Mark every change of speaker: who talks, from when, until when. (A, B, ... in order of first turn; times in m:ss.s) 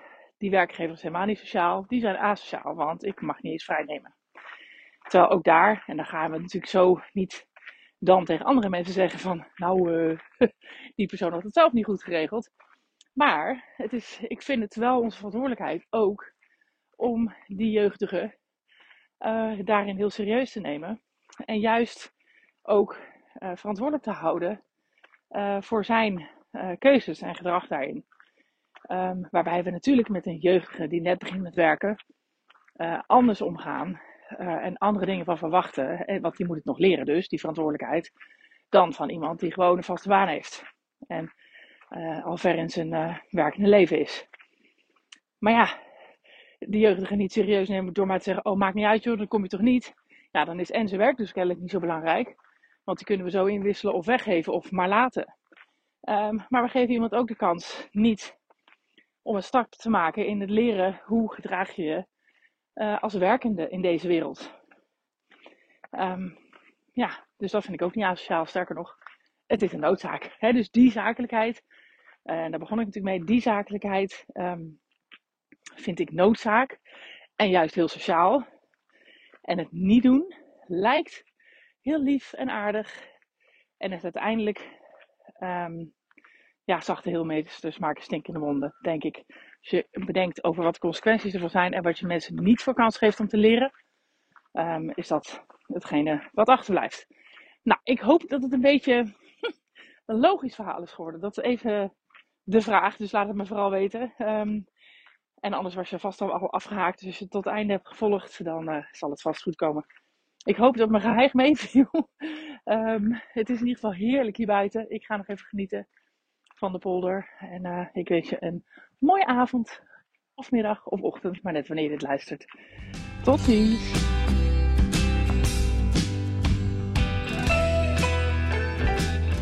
0:00.4-0:04.1 A
0:05.1-0:07.5 A
0:08.0-0:12.5 A
0:13.2-0:16.3 A
0:17.0-0:18.3 A
0:19.2-0:22.1 A
0:22.7-0:24.6 A
0:25.3-0:28.1 A
0:28.9-0:32.0 A
0:32.8-0:38.1 A
0:38.7-0:41.3 A
0:41.9-0:44.3 A
0:45.4-0:45.7 A
0:46.6-0:55.3 A
0:56.1-0:58.4 A
0:59.2-1:02.1 A
1:02.8-1:04.5 A
1:05.9-1:06.4 A
1:07.0-1:09.0 A
1:09.5-1:11.6 A
1:12.3-1:14.8 A
1:15.8-1:16.8 A
1:17.4-1:18.4 A
1:19.5-1:21.3 A
1:21.8-1:22.9 A
1:23.8-1:24.7 A
1:25.4-1:25.9 A
1:26.7-1:33.7 A
1:34.6-1:37.1 A
1:37.7-1:39.1 A
1:40.1-1:41.9 A
1:42.5-1:44.7 A
1:45.4-1:49.8 A
1:50.5-1:55.8 A
1:56.6-1:59.8 A
2:00.4-2:02.5 A
2:03.2-2:04.0 A